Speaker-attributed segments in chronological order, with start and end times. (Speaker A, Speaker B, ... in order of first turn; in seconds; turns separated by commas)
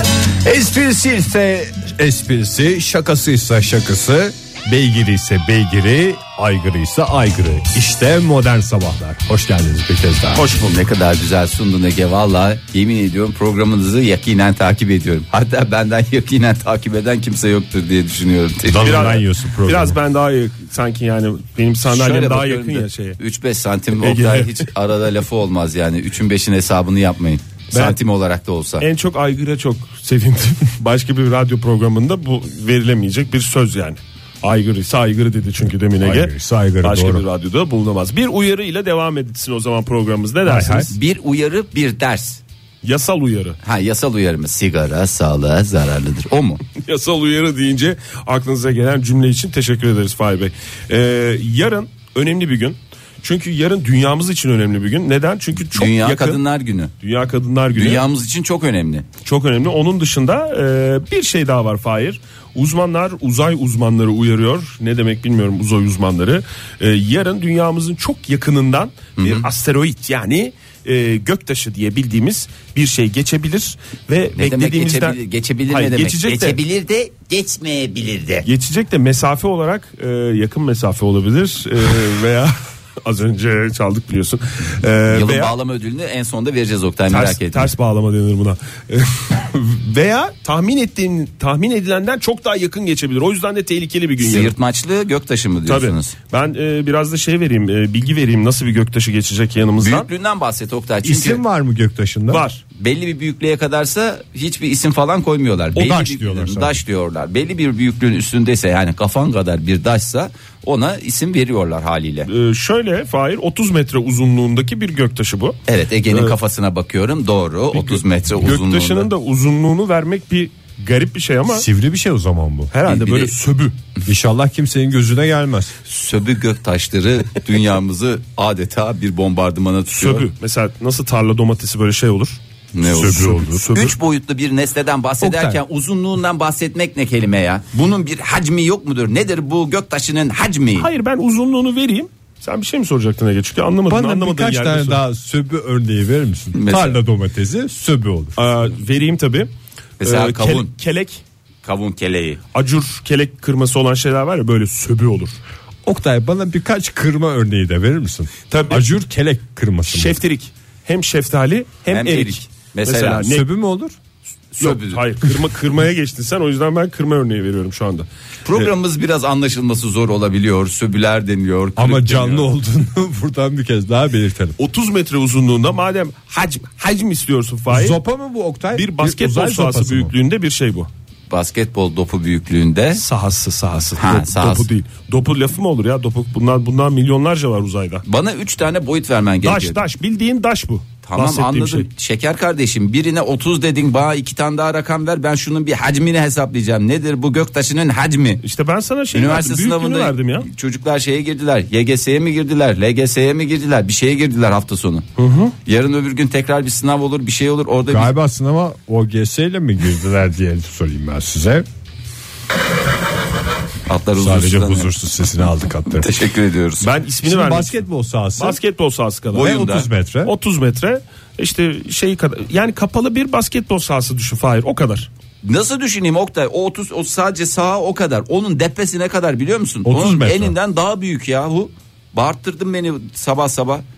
Speaker A: 0.3-10.4, Speaker B: 10.3-19.1, Speaker A: 18.6-20.0, Speaker C: 18.8-23.2, Speaker B: 21.8-28.8, Speaker C: 24.0-24.7, Speaker C: 27.7-28.0, Speaker C: 28.8-40.9, Speaker A: 36.0-37.2, Speaker A: 40.4-40.9, Speaker B: 40.9-42.4, Speaker C: 42.8-43.6, Speaker B: 43.6-46.6, Speaker C: 46.8-56.4, Speaker B: 55.7-56.9, Speaker C: 57.0-58.0, Speaker B: 57.7-59.0, Speaker C: 59.2-76.6, Speaker B: 69.2-69.5, Speaker B: 74.4-78.5, Speaker C: 78.4-85.5, Speaker B: 85.1-87.7, Speaker C: 87.1-94.5, Speaker B: 94.2-96.1, Speaker C: 95.7-100.1, Speaker B: 99.8-101.4, Speaker A: 101.0-102.4, Speaker C: 102.3-102.6, Speaker B: 102.8-112.3, Speaker A: 105.7-106.8, Speaker C: 112.3-116.3, Speaker B: 115.7-119.1, Speaker C: 117.7-121.7, Speaker A: 121.5-122.7, Speaker C: 122.7-123.8, Speaker B: 122.8-123.3, Speaker A: 124.0-125.8, Speaker B: 125.8-130.3, Speaker C: 129.9-132.4, Speaker B: 132.7-140.9, Speaker A: 132.8-133.7, Speaker C: 133.0-133.9, Speaker A: 135.2-135.6, Speaker C: 140.8-145.0, Speaker A: 143.9-148.4, Speaker B: 146.5-147.0, Speaker C: 148.3-149.5, Speaker B: 150.0-150.7, Speaker C: 150.0-151.2, Speaker B: 151.6-152.4, Speaker C: 152.5-155.4, Speaker A: 155.8-160.2, Speaker C: 158.5-158.9, Speaker C: 159.9-163.5, Speaker B: 161.9-163.3, Speaker A: 163.2-163.9, Speaker B: 164.5-165.0, Speaker C: 164.6-168.7, Speaker B: 168.4-172.5, Speaker A: 171.8-174.6, Speaker C: 174.6-178.0, Speaker A: 177.7-180.1, Speaker C: 178.7-180.9, Speaker B: 181.3-183.0, Speaker C: 182.9-188.0, Speaker B: 184.0-184.7, Speaker B: 188.0-189.8, Speaker C: 189.4-191.9, Speaker B: 191.0-198.4, Speaker C: 198.4-200.5, Speaker B: 199.1-205.1, Speaker C: 205.2-205.5, Speaker B: 205.7-208.1, Speaker A: 207.9-211.6, Speaker B: 213.9-214.9, Speaker A: 214.2-216.1, Speaker B: 216.0-216.9, Speaker C: 216.8-217.8, Speaker A: 217.2-218.6, Speaker C: 218.4-219.6, Speaker B: 219.3-219.9, Speaker A: 219.3-220.3, Speaker C: 220.2-225.1, Speaker B: 225.4-233.8, Speaker A: 229.8-230.5